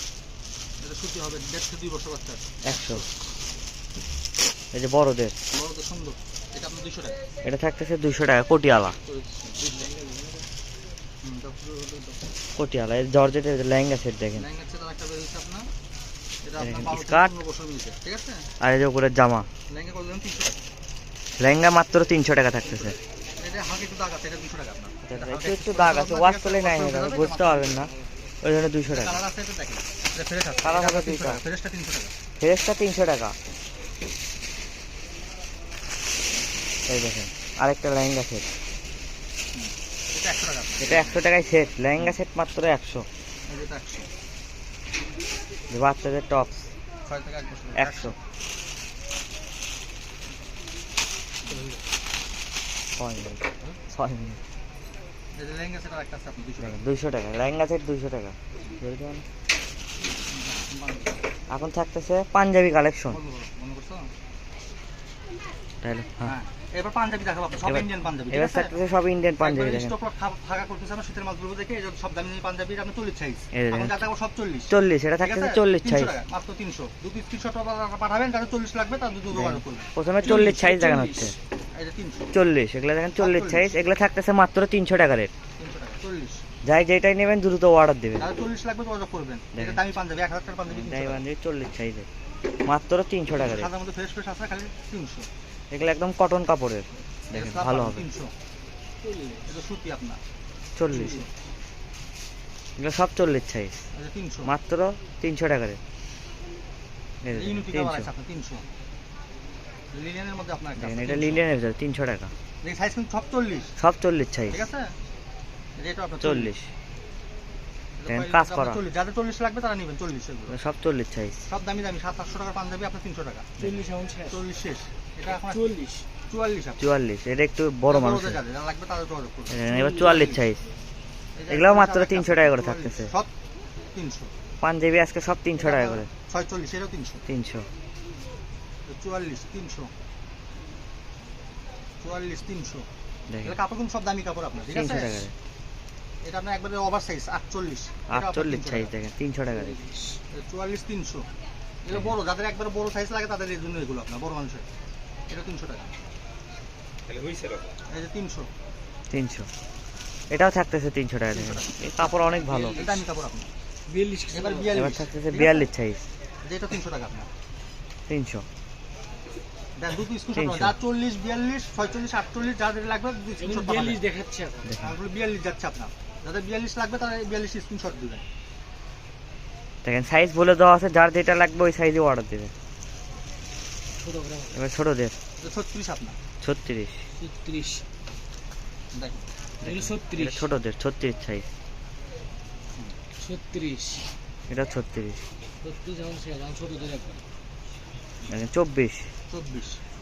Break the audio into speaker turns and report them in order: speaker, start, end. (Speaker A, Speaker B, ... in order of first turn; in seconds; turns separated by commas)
Speaker A: 0.8-3.1, Speaker B: 2.6-3.0, Speaker B: 4.7-5.3, Speaker A: 5.5-7.2, Speaker B: 7.4-9.0, Speaker A: 9.1-9.7, Speaker C: 9.6-10.5, Speaker A: 11.2-12.2, Speaker B: 12.6-14.5, Speaker A: 14.3-15.7, Speaker A: 16.4-18.5, Speaker B: 16.6-17.3, Speaker B: 18.6-19.5, Speaker A: 19.7-20.6, Speaker B: 21.4-23.0, Speaker A: 22.6-27.9, Speaker B: 25.1-29.2, Speaker A: 28.9-32.1, Speaker B: 30.6-31.4, Speaker B: 32.4-33.4, Speaker B: 36.9-38.5, Speaker A: 39.5-41.2, Speaker B: 40.8-43.1, Speaker A: 43.5-44.1, Speaker B: 45.7-46.7, Speaker A: 47.1-48.2, Speaker B: 47.8-48.2, Speaker B: 53.0-54.4, Speaker A: 55.3-56.8, Speaker B: 56.6-59.2, Speaker A: 60.1-61.2, Speaker B: 61.5-63.2, Speaker A: 63.1-64.1, Speaker B: 65.8-66.3, Speaker A: 66.2-68.8, Speaker B: 67.7-69.9, Speaker A: 69.4-79.9, Speaker B: 73.5-74.0, Speaker B: 74.7-76.1, Speaker B: 79.3-81.4, Speaker C: 80.2-81.4, Speaker A: 81.7-82.3, Speaker B: 82.3-85.3, Speaker A: 83.1-83.7, Speaker A: 85.6-86.4, Speaker B: 86.6-88.3, Speaker A: 88.2-91.2, Speaker B: 89.5-89.8, Speaker B: 90.7-92.1, Speaker B: 92.7-93.7, Speaker A: 93.3-95.3, Speaker B: 95.7-98.0, Speaker A: 97.3-98.3, Speaker C: 99.0-99.5, Speaker A: 99.4-100.2, Speaker B: 100.8-101.2, Speaker B: 102.8-103.8, Speaker A: 103.9-104.5, Speaker B: 104.5-105.8, Speaker B: 107.2-108.1, Speaker A: 107.3-108.7, Speaker A: 109.9-111.5, Speaker B: 110.8-112.3, Speaker A: 112.6-113.8, Speaker B: 113.8-114.6, Speaker A: 114.5-114.9, Speaker A: 115.8-116.5, Speaker B: 116.2-116.7, Speaker A: 118.0-120.6, Speaker B: 118.1-118.8, Speaker B: 120.5-121.4, Speaker A: 121.5-123.5, Speaker C: 123.6-124.4, Speaker A: 124.3-125.7, Speaker C: 125.4-126.1, Speaker A: 126.3-126.8, Speaker B: 126.8-128.4, Speaker A: 127.9-130.4, Speaker B: 129.5-130.6, Speaker C: 129.7-130.3, Speaker A: 131.4-133.3, Speaker B: 131.5-133.1, Speaker A: 133.9-134.3, Speaker B: 134.6-136.1, Speaker A: 135.5-137.2, Speaker B: 137.2-137.7, Speaker A: 138.9-139.9, Speaker A: 142.0-142.9, Speaker B: 143.3-143.6, Speaker A: 143.4-145.2, Speaker B: 144.7-145.3, Speaker A: 146.2-148.9, Speaker B: 148.1-149.8, Speaker A: 150.3-151.3, Speaker A: 151.8-154.7, Speaker A: 155.3-156.0, Speaker A: 157.9-158.5, Speaker B: 159.1-159.5, Speaker B: 160.3-162.8, Speaker A: 161.3-162.1, Speaker A: 162.7-163.5, Speaker C: 163.9-164.8, Speaker A: 164.3-165.7, Speaker B: 164.7-166.1, Speaker A: 166.4-167.3, Speaker B: 168.1-168.5, Speaker A: 169.8-174.0, Speaker B: 170.3-170.8, Speaker C: 173.4-174.8, Speaker A: 174.8-178.2, Speaker B: 179.8-182.5, Speaker C: 184.0-184.6, Speaker B: 184.5-185.2, Speaker A: 185.4-186.2, Speaker B: 186.4-187.0, Speaker C: 187.2-187.8, Speaker A: 188.9-189.3, Speaker B: 189.6-191.5, Speaker C: 189.6-190.5, Speaker C: 193.2-194.1, Speaker B: 194.5-195.2, Speaker C: 195.6-197.2, Speaker B: 198.3-199.1, Speaker A: 199.3-199.8